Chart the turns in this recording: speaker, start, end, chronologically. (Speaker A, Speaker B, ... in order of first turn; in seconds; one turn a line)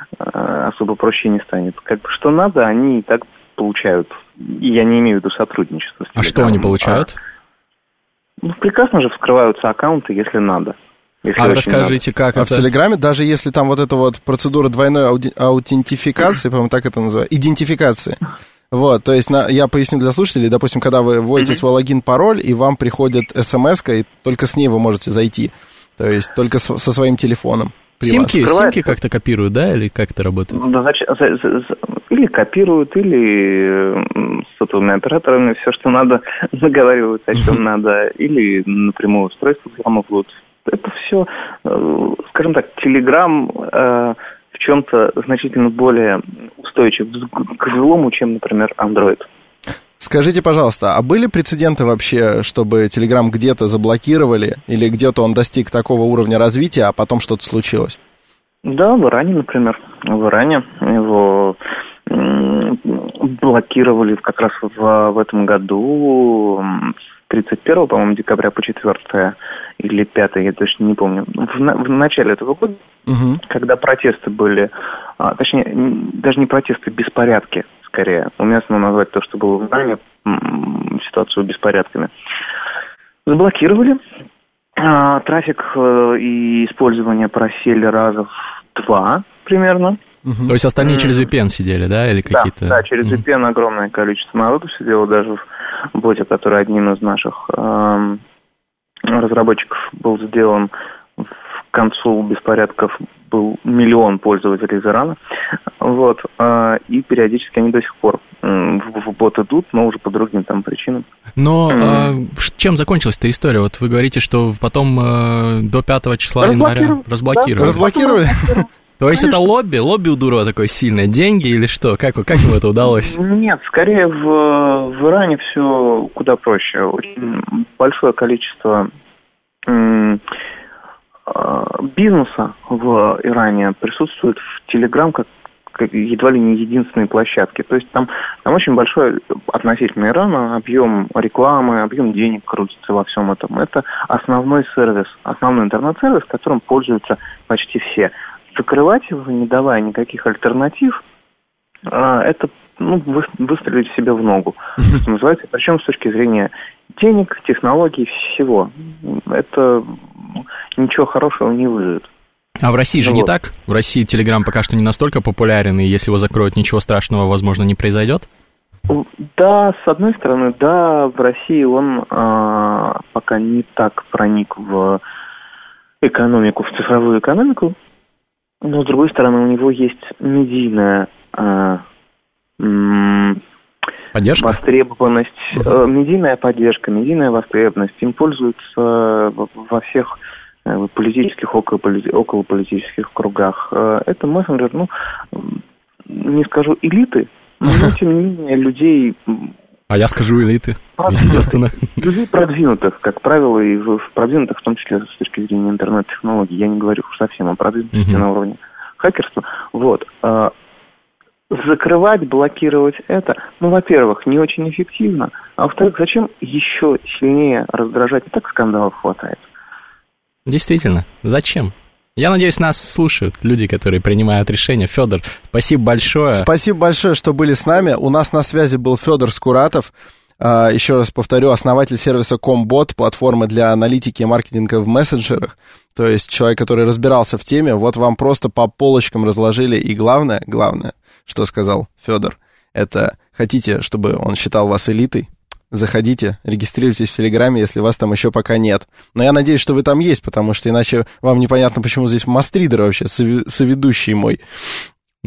Speaker A: 0.2-7.1
Speaker B: 6.2-7.1
Speaker A: 8.4-12.0
Speaker B: 11.3-12.6
Speaker C: 12.3-18.2
Speaker C: 18.7-28.4
Speaker B: 28.0-30.6
Speaker A: 28.4-29.0
Speaker A: 30.5-49.3
Speaker C: 50.0-58.0
Speaker A: 58.6-72.8
Speaker C: 73.1-73.4
Speaker A: 73.4-82.1
Speaker A: 83.2-84.0
Speaker A: 84.8-90.0
Speaker C: 90.2-90.5
Speaker B: 90.5-93.2
Speaker A: 90.8-91.3
Speaker A: 92.3-95.4
Speaker A: 95.9-98.2
Speaker A: 99.0-105.2
Speaker A: 105.8-111.1
Speaker B: 111.4-117.8
Speaker A: 111.7-112.1
Speaker A: 116.4-119.4
Speaker C: 117.6-118.6
Speaker B: 119.0-123.2
Speaker A: 122.8-128.9
Speaker A: 129.7-130.2
Speaker A: 131.3-151.0
Speaker A: 151.9-162.1
Speaker B: 162.6-168.2
Speaker A: 163.0-163.3
Speaker A: 168.9-175.0
Speaker A: 176.0-177.8
Speaker A: 178.6-181.8
Speaker A: 182.6-183.4
Speaker B: 184.1-184.6
Speaker A: 184.4-190.1
Speaker A: 190.7-199.5
Speaker B: 199.9-201.9
Speaker A: 201.0-210.5
Speaker B: 207.9-208.2
Speaker A: 211.5-219.4
Speaker B: 220.5-226.5
Speaker C: 226.3-254.8